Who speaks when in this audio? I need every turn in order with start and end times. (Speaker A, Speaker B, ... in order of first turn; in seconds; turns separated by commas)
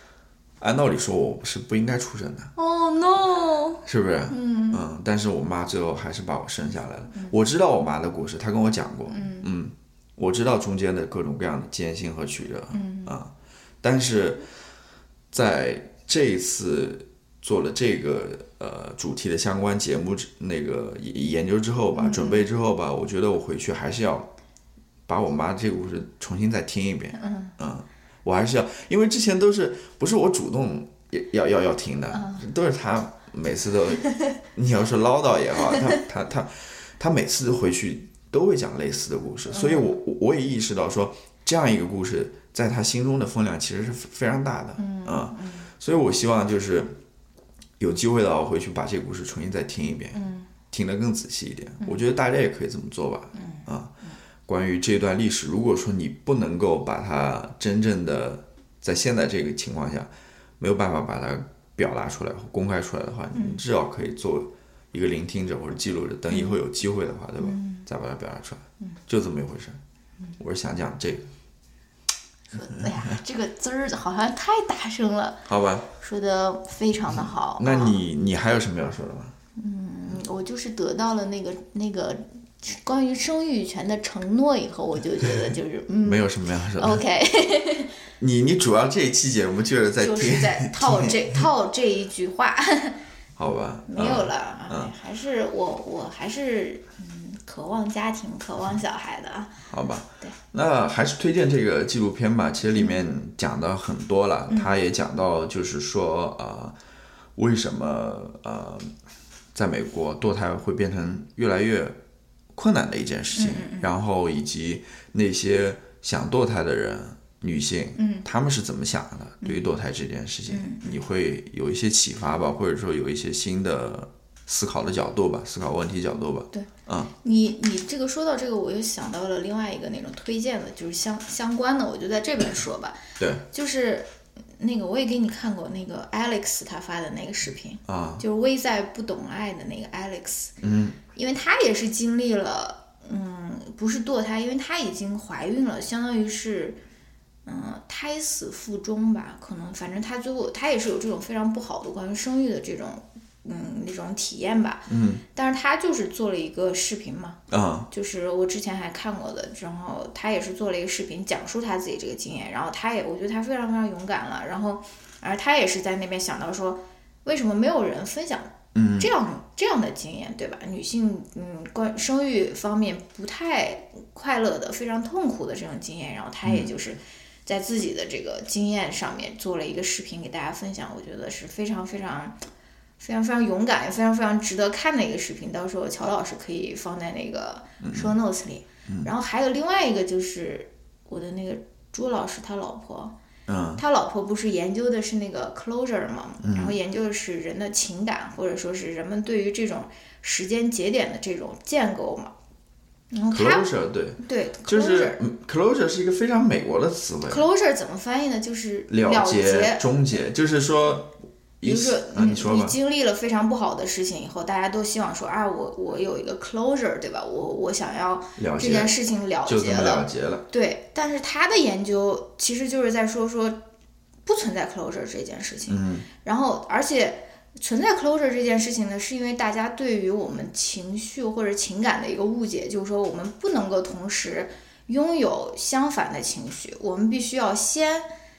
Speaker A: 0.6-2.5, Speaker B: 2.6-4.8, Speaker A: 3.9-14.4, Speaker B: 9.1-9.5, Speaker B: 12.7-13.2, Speaker A: 15.3-24.3, Speaker B: 21.9-22.5, Speaker A: 25.1-47.0, Speaker B: 27.1-27.6, Speaker B: 32.1-32.4, Speaker B: 35.7-36.0, Speaker B: 39.5-40.0, Speaker B: 44.8-45.7, Speaker A: 47.8-50.2, Speaker B: 50.1-50.5, Speaker A: 50.7-53.9, Speaker B: 53.4-54.2, Speaker A: 54.5-69.8, Speaker B: 63.3-63.6, Speaker B: 66.3-66.6, Speaker B: 67.4-67.9, Speaker A: 70.4-71.3, Speaker B: 72.5-75.5, Speaker A: 75.5-75.9, Speaker B: 76.0-78.0, Speaker A: 77.1-79.3, Speaker B: 79.6-87.9, Speaker A: 86.0-87.0, Speaker A: 88.2-91.5, Speaker B: 90.0-93.0, Speaker A: 93.4-94.9, Speaker B: 93.9-99.5, Speaker A: 99.7-106.8, Speaker B: 102.8-103.1, Speaker A: 107.4-108.9, Speaker A: 109.5-112.0, Speaker A: 112.5-127.1, Speaker B: 113.3-113.9, Speaker B: 118.0-118.3, Speaker B: 120.5-121.0, Speaker B: 127.2-140.5, Speaker A: 133.2-133.4, Speaker A: 137.9-138.2, Speaker A: 140.6-141.0, Speaker B: 141.1-146.8, Speaker B: 147.5-157.4, Speaker A: 154.9-155.2, Speaker A: 157.5-157.9, Speaker B: 157.9-182.4, Speaker A: 168.8-169.1, Speaker A: 176.4-176.7, Speaker B: 183.0-193.1, Speaker A: 187.8-188.2, Speaker A: 193.5-193.8, Speaker B: 193.8-202.3, Speaker A: 196.4-196.8, Speaker B: 203.1-205.2, Speaker A: 203.3-207.4, Speaker B: 207.3-209.8, Speaker A: 208.9-212.8, Speaker B: 211.6-223.6, Speaker A: 218.4-218.9, Speaker A: 219.4-220.4, Speaker B: 224.3-238.1, Speaker A: 225.7-226.1